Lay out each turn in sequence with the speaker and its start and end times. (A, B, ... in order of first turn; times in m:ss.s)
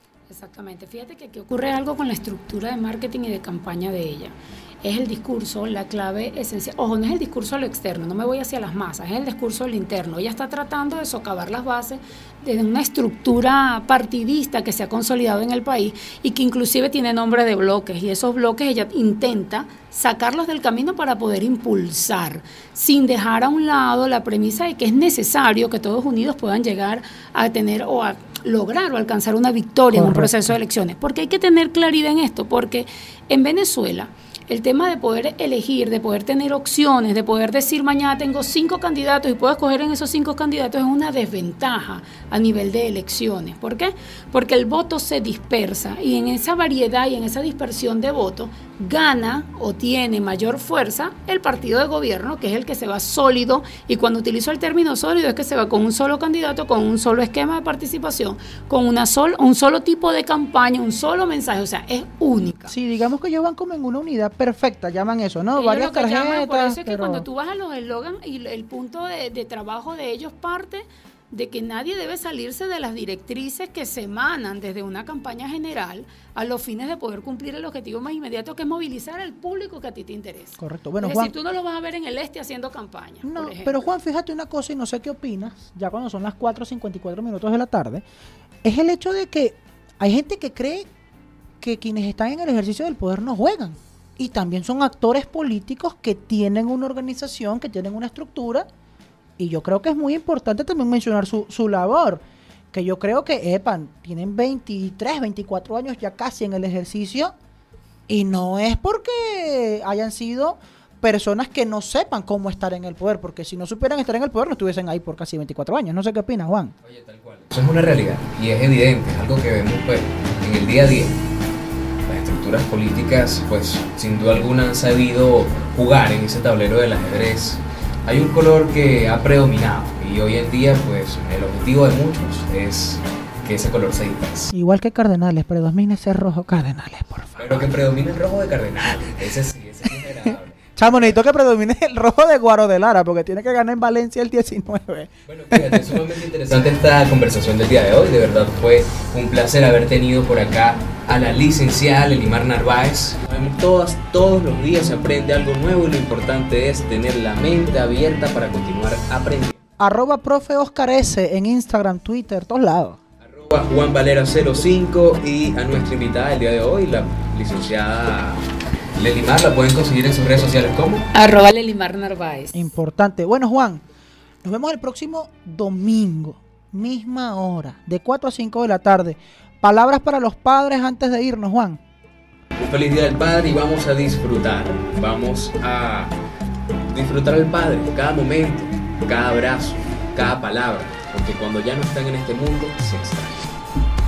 0:00.3-1:02.8 A
0:29.9-0:30.6 B
1:02.7-1:07.3 B
1:05.6-1:23.9 A
1:20.6-1:21.3 B
1:23.2-1:28.0 B
1:28.6-1:30.9 B
1:31.6-1:38.7 B
1:39.4-1:42.2 B
1:42.7-1:47.3 B
1:48.1-1:56.7 B
1:56.8-2:01.2 C
2:02.1-2:14.5 C
2:14.5-2:17.7 B
2:17.4-2:21.2 C
2:20.8-2:26.0 B
2:25.3-2:39.6 C
2:39.8-2:43.0 B
2:43.2-2:51.1 C
2:51.1-2:52.6 A
2:52.5-2:53.8 B
2:54.4-3:01.8 B
3:02.6-3:06.2 C
3:06.9-3:13.6 C